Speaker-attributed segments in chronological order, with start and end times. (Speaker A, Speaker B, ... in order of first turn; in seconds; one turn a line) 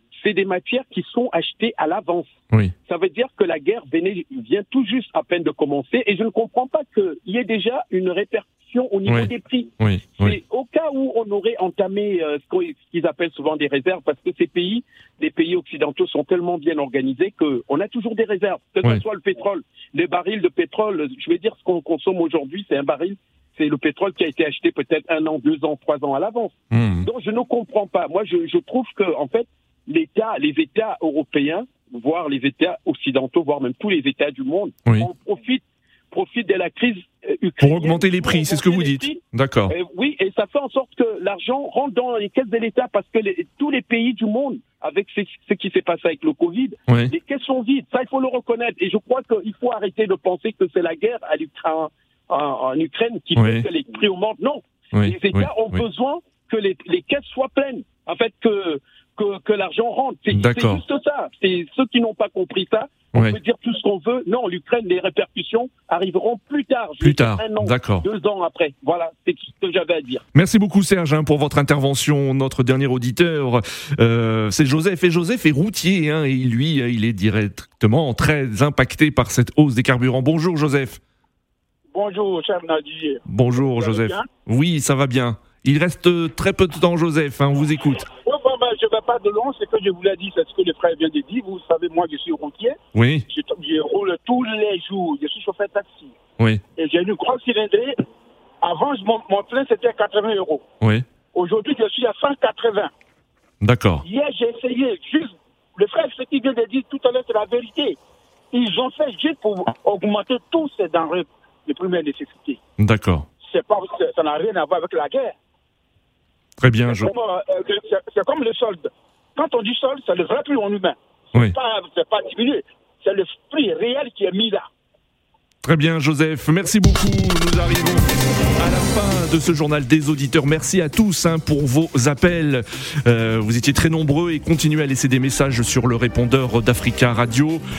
Speaker A: 0.2-70.2
Speaker B: 9.1-10.4
Speaker B: 26.7-27.1
Speaker B: 37.6-39.7
Speaker B: 46.9-47.1
Speaker B: 53.4-53.6
Speaker B: 54.9-55.8
Speaker B: 60.3-60.8
Speaker B: 67.0-68.0
Speaker B: 70.3-81.0
Speaker C: 81.9-84.3
Speaker B: 83.3-88.1
Speaker C: 88.2-92.8
Speaker B: 92.9-93.2
Speaker C: 93.3-96.2
Speaker C: 96.8-97.9
Speaker C: 98.6-100.6
Speaker C: 101.3-102.9
Speaker B: 103.6-104.0
Speaker C: 104.0-108.0
Speaker C: 108.5-112.6
Speaker B: 112.8-113.3
Speaker C: 113.4-115.3
Speaker B: 116.6-117.1
Speaker C: 116.8-124.7
Speaker B: 125.6-137.6